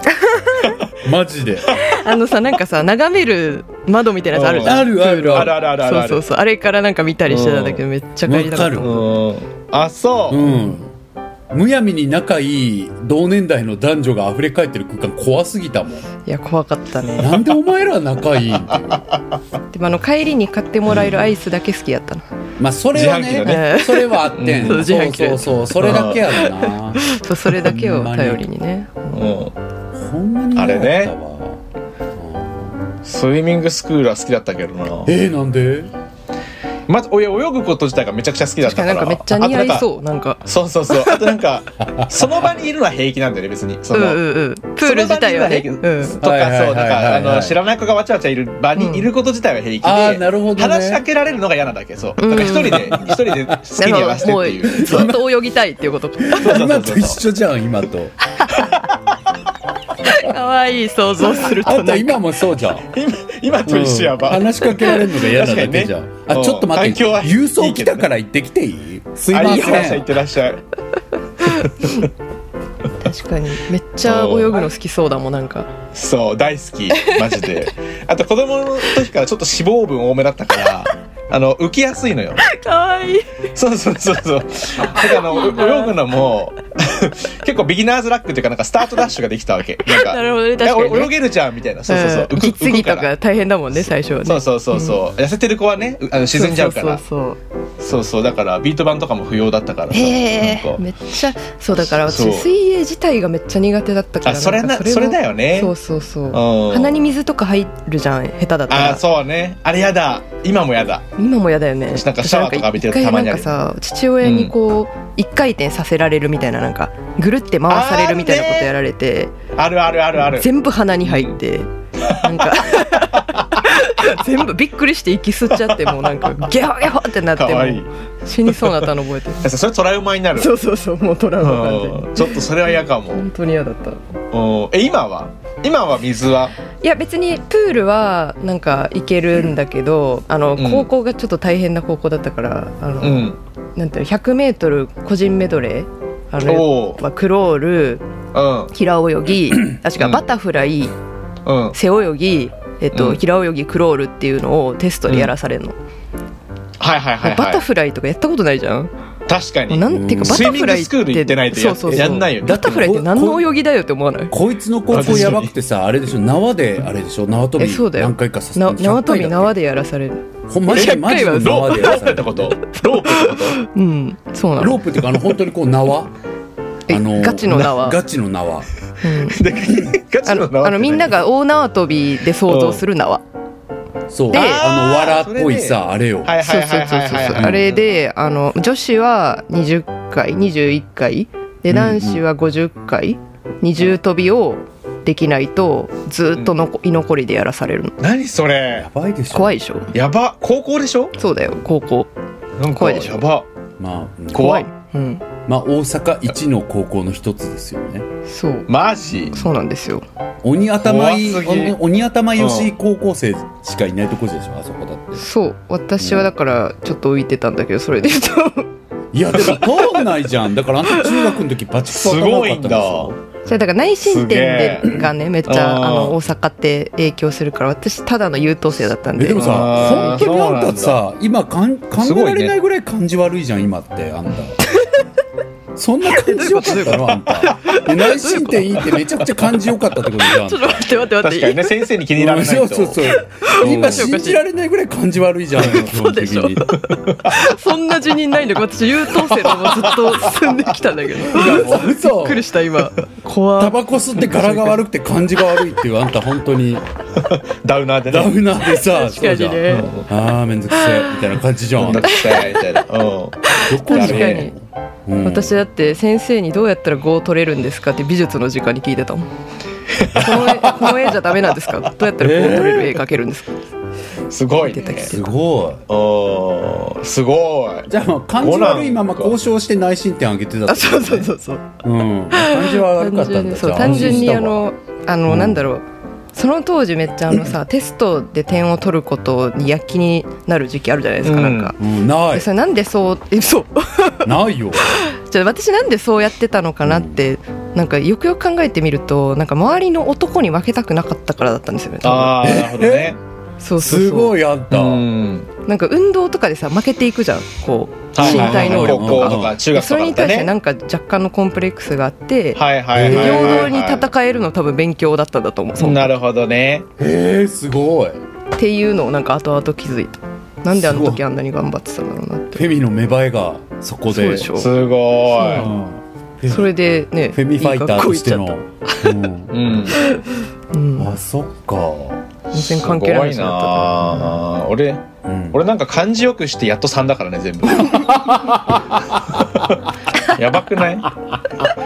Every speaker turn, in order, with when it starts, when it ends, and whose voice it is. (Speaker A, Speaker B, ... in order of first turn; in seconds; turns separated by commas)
Speaker A: 0.1-0.8, Speaker B: 0.9-1.8, Speaker A: 1.8-9.0, Speaker C: 4.3-6.2, Speaker B: 4.6-5.6, Speaker C: 7.3-7.8, Speaker B: 8.2-9.1, Speaker C: 8.8-10.6, Speaker B: 10.3-10.9, Speaker B: 11.5-16.1, Speaker A: 16.2-17.4, Speaker B: 17.2-19.1, Speaker C: 18.8-19.4, Speaker A: 19.7-22.2, Speaker B: 22.6-28.5, Speaker C: 22.9-23.6, Speaker A: 23.4-29.4, Speaker C: 24.3-24.9, Speaker C: 25.8-26.4, Speaker C: 29.1-29.5, Speaker B: 29.9-31.6, Speaker C: 30.6-31.1, Speaker B: 32.1-32.9, Speaker C: 33.0-35.1, Speaker B: 35.0-35.9, Speaker C: 36.9-39.9, Speaker A: 38.6-41.4, Speaker C: 40.5-44.2, Speaker B: 41.8-42.3, Speaker A: 43.9-46.2, Speaker C: 44.8-55.1, Speaker B: 46.2-47.6, Speaker A: 48.8-49.1, Speaker B: 49.8-51.0, Speaker A: 52.2-53.1, Speaker B: 52.9-53.3, Speaker A: 53.7-57.0, Speaker B: 54.7-55.2, Speaker B: 56.2-58.1, Speaker C: 56.4-57.2, Speaker C: 58.6-58.9, Speaker A: 60.0-62.2, Speaker B: 61.5-62.9, Speaker C: 62.9-68.0, Speaker B: 63.6-70.1, Speaker C: 69.2-70.6, Speaker A: 69.5-69.9, Speaker C: 71.5-72.1, Speaker A: 71.5-72.0, Speaker A: 73.0-75.7, Speaker C: 74.0-74.7, Speaker C: 75.9-82.4, Speaker A: 77.0-77.5, Speaker A: 82.4-83.4, Speaker C: 83.5-93.1, Speaker A: 85.0-85.9, Speaker A: 89.8-91.1, Speaker A: 91.9-95.0, Speaker C: 93.7-97.0, Speaker A: 96.3-97.4, Speaker C: 97.8-100.8, Speaker A: 99.9-109.0, Speaker C: 101.8-102.5, Speaker C: 104.2-105.7, Speaker C: 106.3-107.0, Speaker C: 108.7-111.0, Speaker A: 111.2-119.3, Speaker C: 111.9-113.5, Speaker C: 114.2-114.5, Speaker C: 117.7-118.7, Speaker C: 119.5-120.5, Speaker A: 120.3-129.4, Speaker C: 121.0-121.3, Speaker C: 122.0-123.4, Speaker C: 125.6-126.5, Speaker C: 127.3-127.9, Speaker C: 128.4-128.9, Speaker C: 129.4-130.5, Speaker A: 130.3-134.0, Speaker C: 131.4-133.2, Speaker C: 134.3-136.5, Speaker A: 136.8-148.0, Speaker C: 140.6-140.9, Speaker C: 143.0-143.4, Speaker C: 146.4-147.0, Speaker C: 148.3-148.7, Speaker A: 148.7-150.9, Speaker C: 151.4-151.8, Speaker A: 151.7-155.8, Speaker C: 152.9-153.2, Speaker C: 156.8-157.7, Speaker A: 157.2-158.9, Speaker C: 159.3-162.6, Speaker A: 159.7-164.3, Speaker B: 159.9-160.6, Speaker B: 161.9-163.5, Speaker B: 164.3-169.5, Speaker C: 164.9-165.5, Speaker A: 167.6-172.1, Speaker B: 170.5-172.5, Speaker C: 170.7-173.6, Speaker A: 172.8-175.0, Speaker B: 174.6-176.1, Speaker A: 176.9-178.0, Speaker B: 176.9-178.7, Speaker A: 179.0-179.4, Speaker C: 179.3-181.2, Speaker A: 180.2-183.2, Speaker C: 182.4-182.8, Speaker B: 184.1-186.4, Speaker A: 184.3-184.6, Speaker C: 184.3-187.8, Speaker A: 186.4-197.9, Speaker B: 187.3-187.6, Speaker B: 191.8-192.2, Speaker C: 198.0-198.9, Speaker B: 198.7-199.6, Speaker A: 199.3-199.9, Speaker C: 199.9-201.1, Speaker A: 201.2-202.1, Speaker C: 202.6-203.4, Speaker A: 202.7-203.2, Speaker B: 203.8-204.5, Speaker C: 204.3-204.7, Speaker A: 204.3-205.2, Speaker B: 205.5-208.1, Speaker A: 208.3-208.7, Speaker C: 208.7-209.5, Speaker A: 209.3-210.0, Speaker B: 210.4-215.2, Speaker C: 210.8-211.8, Speaker C: 212.4-212.7, Speaker A: 215.2-218.7, Speaker B: 216.0-216.3, Speaker B: 219.1-223.2, Speaker C: 221.9-223.1, Speaker A: 223.4-230.2, Speaker C: 224.0-226.2, Speaker B: 229.2-234.6, Speaker C: 229.3-231.0, Speaker C: 232.0-232.5, Speaker B: 235.7-240.9, Speaker A: 236.1-238.8, Speaker A: 240.2-241.8, Speaker C: 241.2-244.1, Speaker B: 242.1-246.8, Speaker A: 243.0-244.4, Speaker A: 245.6-253.8, Speaker C: 247.0-247.6, Speaker C: 249.2-250.6, Speaker B: 251.3-252.5, Speaker C: 251.4-251.8, Speaker B: 253.6-256.8, Speaker C: 257.2-258.5, Speaker B: 258.1-262.4, Speaker A: 258.9-259.9, Speaker C: 259.7-260.1, Speaker A: 260.7-261.1, Speaker C: 261.8-264.5, Speaker A: 262.0-262.6, Speaker A: 263.4-264.5, Speaker B: 263.6-265.6, Speaker A: 265.2-269.3, Speaker C: 270.0-270.4, Speaker A: 270.0-273.5, Speaker B: 272.2-272.9, Speaker C: 274.3-275.1, Speaker A: 274.6-275.2, Speaker B: 275.0-275.9, Speaker C: 275.9-277.9, Speaker B: 277.9-281.3, Speaker C: 278.4-279.4, Speaker A: 280.7-281.6, Speaker B: 281.8-284.6, Speaker A: 282.3-291.8, Speaker C: 283.9-284.1, Speaker B: 285.3-285.6, Speaker C: 291.2-291.7, Speaker B: 291.8-292.5, Speaker A: 292.3-294.3, Speaker B: 294.2-295.0, Speaker A: 294.8-302.4, Speaker B: 296.8-297.2, Speaker C: 302.0-303.2, Speaker B: 302.4-303.2, Speaker A: 303.6-304.4, Speaker B: 303.8-305.1, Speaker C: 304.7-305.5, Speaker A: 305.6-316.1, Speaker C: 308.1-310.5, Speaker B: 308.2-309.6, Speaker C: 312.5-314.1, Speaker B: 312.9-313.7, Speaker C: 315.8-316.9, Speaker B: 317.0-318.2, Speaker A: 318.5-322.6, Speaker B: 320.7-321.2, Speaker B: 322.5-324.6, Speaker A: 324.1-324.7, Speaker C: 324.5-325.8, Speaker A: 325.3-325.7, Speaker B: 325.5-326.7, Speaker A: 326.5-329.1, Speaker B: 327.3-329.6, Speaker C: 329.5-330.0, Speaker A: 330.0-331.1, Speaker B: 331.0-332.2, Speaker A: 332.5-334.4, Speaker C: 332.5-338.3, Speaker B: 335.2-335.6, Speaker B: 337.8-339.6, Speaker C: 339.4-341.1